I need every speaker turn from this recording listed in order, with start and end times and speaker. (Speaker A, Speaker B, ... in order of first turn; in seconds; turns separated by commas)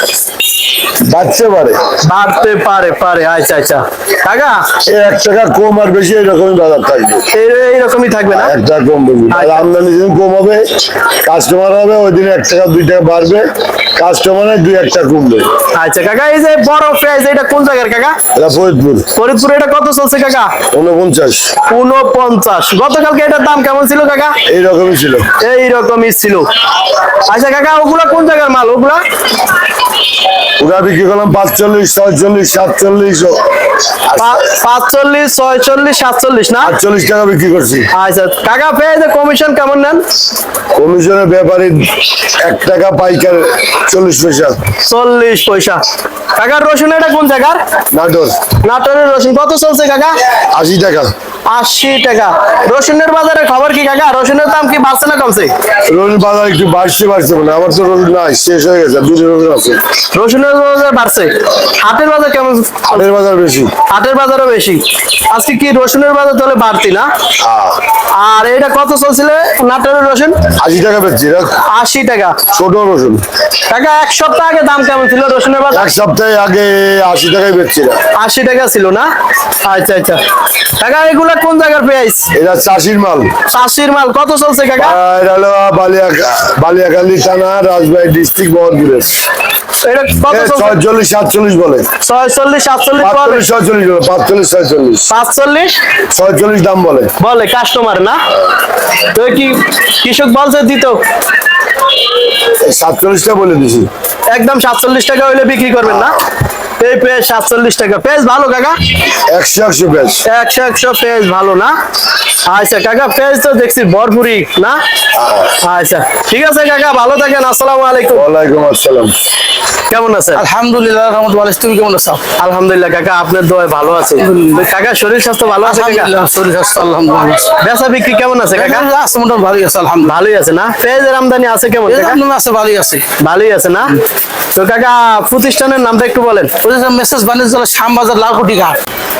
Speaker A: 1.0-1.9, Speaker B: 2.0-4.7, Speaker A: 4.8-7.3, Speaker B: 7.3-8.5, Speaker A: 8.3-15.5, Speaker B: 9.3-9.7, Speaker B: 15.7-18.2, Speaker A: 18.3-19.1, Speaker B: 19.1-20.6, Speaker A: 20.7-21.6, Speaker B: 21.7-24.4, Speaker A: 24.4-25.3, Speaker B: 25.4-26.5, Speaker B: 27.3-29.0, Speaker A: 30.6-33.5, Speaker A: 34.1-34.4, Speaker B: 34.2-36.7, Speaker A: 36.6-37.9, Speaker B: 37.9-40.0, Speaker A: 40.8-44.6, Speaker B: 44.9-45.8, Speaker B: 46.4-47.6, Speaker A: 47.9-48.5, Speaker B: 48.6-50.2, Speaker A: 50.5-51.1, Speaker B: 51.5-55.5, Speaker A: 55.9-59.8, Speaker B: 60.1-63.0, Speaker A: 62.9-63.7, Speaker B: 63.9-67.1, Speaker A: 67.4-67.8, Speaker B: 68.2-70.4, Speaker A: 70.5-71.6, Speaker B: 71.7-72.4, Speaker A: 72.5-73.2, Speaker B: 73.7-75.9, Speaker A: 75.7-78.0, Speaker B: 78.2-79.1, Speaker B: 79.7-80.2, Speaker B: 80.8-82.3, Speaker A: 82.3-83.4, Speaker B: 83.5-85.0, Speaker A: 84.8-89.2, Speaker B: 89.8-90.8, Speaker A: 90.3-91.9, Speaker B: 92.0-93.5, Speaker A: 93.0-95.1, Speaker B: 95.1-95.8, Speaker A: 96.1-97.1, Speaker B: 97.2-98.2, Speaker B: 99.1-101.0, Speaker A: 102.6-103.9, Speaker B: 104.3-106.2, Speaker A: 105.8-106.2, Speaker B: 106.8-108.8, Speaker A: 109.3-110.2, Speaker B: 110.3-111.8, Speaker B: 112.5-114.8, Speaker A: 115.2-115.5, Speaker B: 115.6-118.3, Speaker A: 118.1-119.1, Speaker B: 119.9-120.5, Speaker C: 120.3-122.2, Speaker B: 122.4-126.1, Speaker C: 124.2-124.6, Speaker C: 125.6-127.6, Speaker B: 127.6-128.9, Speaker C: 128.5-130.2, Speaker B: 130.1-132.2, Speaker C: 131.8-133.1, Speaker B: 133.2-133.9, Speaker B: 134.5-136.5, Speaker C: 136.6-138.8